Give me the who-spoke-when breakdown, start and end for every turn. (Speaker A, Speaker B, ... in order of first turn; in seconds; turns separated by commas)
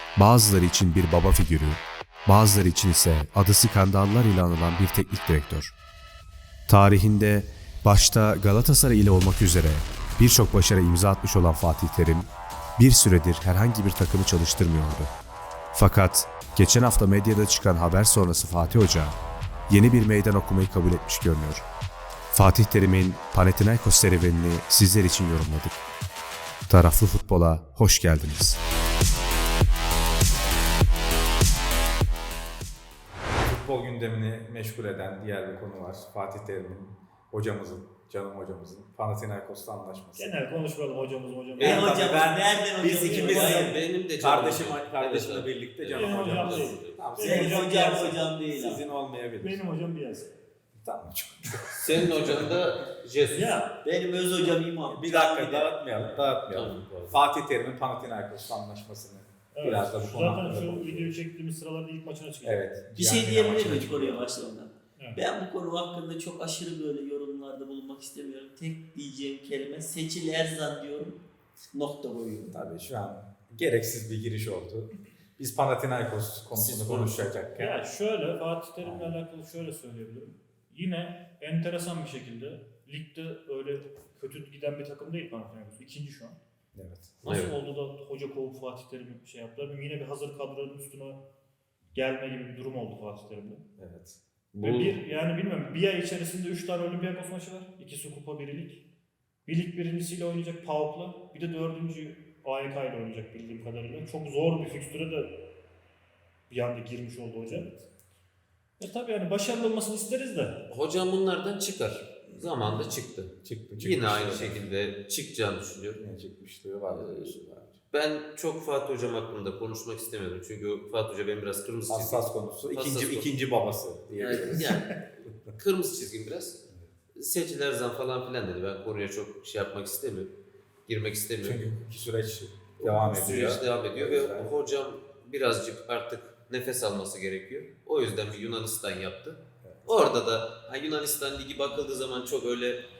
Speaker A: 0.1-5.7, Speaker A: 6.7-15.1, Speaker A: 15.7-19.1, Speaker A: 19.7-21.6, Speaker A: 22.3-25.8, Speaker A: 26.7-28.6, Speaker B: 33.4-40.4, Speaker C: 40.1-42.0, Speaker B: 41.6-49.6, Speaker D: 41.6-43.7, Speaker C: 43.0-43.7, Speaker E: 43.5-47.0, Speaker C: 45.9-48.2, Speaker D: 47.2-48.8, Speaker C: 49.4-50.3, Speaker B: 50.8-52.6, Speaker E: 51.8-53.6, Speaker C: 53.3-53.7, Speaker D: 53.8-55.8, Speaker B: 54.8-61.2, Speaker E: 56.5-57.2, Speaker C: 59.5-62.7, Speaker B: 62.4-64.3, Speaker D: 63.0-71.2, Speaker D: 71.7-72.6, Speaker B: 72.5-77.8, Speaker E: 76.5-77.3, Speaker C: 77.6-86.4, Speaker B: 78.8-79.2, Speaker B: 86.7-87.2, Speaker C: 87.2-91.2, Speaker E: 87.2-87.5, Speaker C: 91.9-93.6, Speaker B: 93.8-94.2, Speaker E: 94.5-95.0, Speaker C: 94.6-98.8, Speaker C: 99.5-105.3, Speaker C: 106.5-107.8, Speaker C: 108.8-110.6, Speaker E: 110.7-116.0, Speaker B: 113.4-114.6, Speaker B: 116.0-117.7, Speaker E: 116.9-117.4, Speaker E: 117.9-123.3, Speaker B: 121.9-124.8, Speaker E: 124.2-124.9, Speaker E: 125.5-126.6, Speaker E: 127.1-130.3, Speaker E: 130.9-131.8, Speaker B: 131.4-134.5, Speaker E: 132.8-142.8, Speaker B: 139.6-139.9